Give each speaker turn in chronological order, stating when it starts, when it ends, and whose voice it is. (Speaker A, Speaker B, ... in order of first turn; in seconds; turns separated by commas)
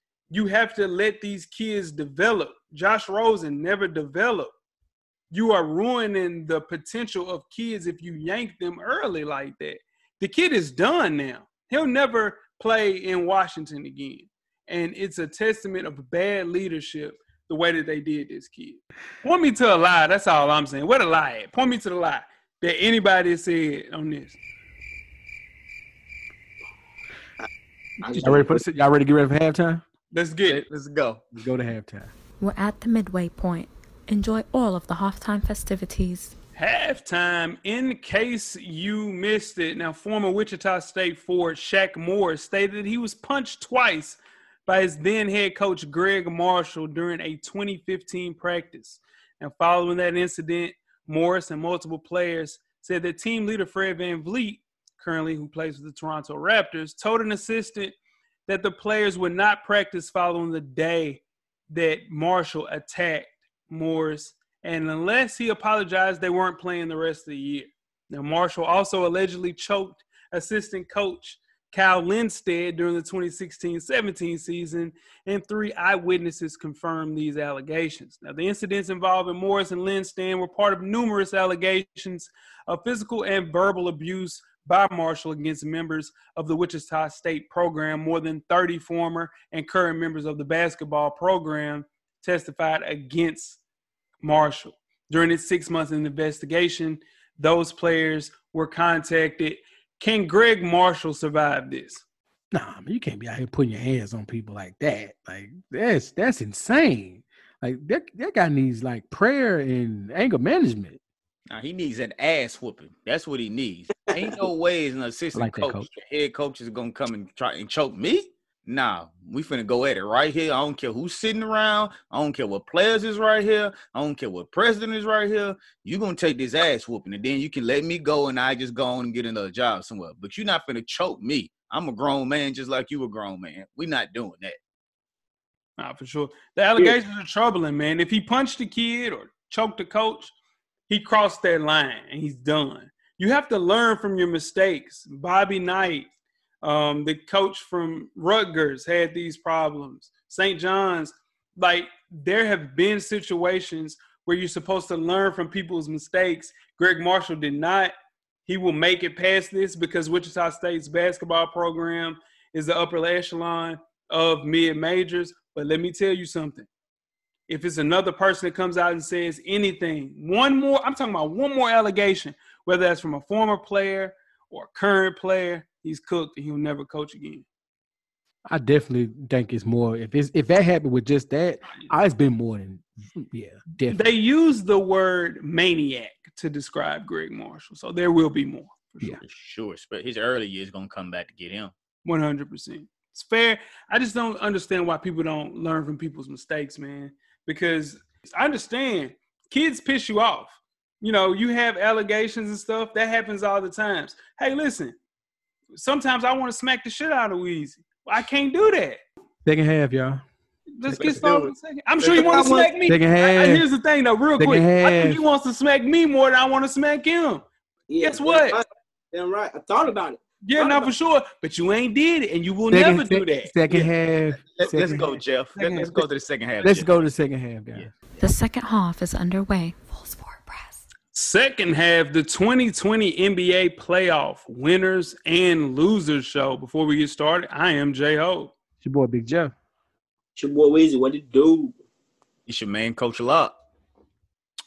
Speaker A: 0.3-4.5, Speaker A: 5.3-24.4, Speaker B: 28.0-28.6, Speaker C: 28.1-29.8, Speaker A: 30.1-30.6, Speaker D: 30.5-31.2, Speaker C: 31.3-32.1, Speaker E: 32.4-36.3, Speaker A: 36.5-58.0, Speaker A: 58.5-93.6, Speaker A: 94.2-102.0, Speaker C: 102.5-111.0, Speaker D: 111.5-134.6, Speaker C: 115.3-115.9, Speaker A: 135.8-140.3, Speaker A: 140.9-146.1, Speaker A: 146.6-157.9, Speaker A: 158.4-166.7, Speaker A: 167.5-177.4, Speaker C: 178.5-184.0, Speaker A: 183.9-189.1, Speaker D: 189.1-191.7, Speaker A: 192.1-204.9, Speaker A: 205.7-209.0, Speaker C: 209.4-210.2, Speaker A: 210.8-217.4, Speaker C: 210.9-211.2, Speaker D: 211.1-211.5, Speaker D: 212.0-212.5, Speaker B: 212.1-212.7, Speaker C: 212.9-213.7, Speaker C: 214.4-215.2, Speaker B: 217.9-220.9, Speaker A: 218.0-218.6, Speaker A: 220.4-223.5, Speaker C: 222.7-226.0, Speaker D: 224.5-226.9, Speaker C: 226.6-227.9, Speaker D: 227.7-228.2, Speaker E: 228.2-230.9, Speaker A: 231.1-238.5, Speaker C: 238.8-239.5, Speaker B: 240.4-241.8, Speaker D: 242.5-243.6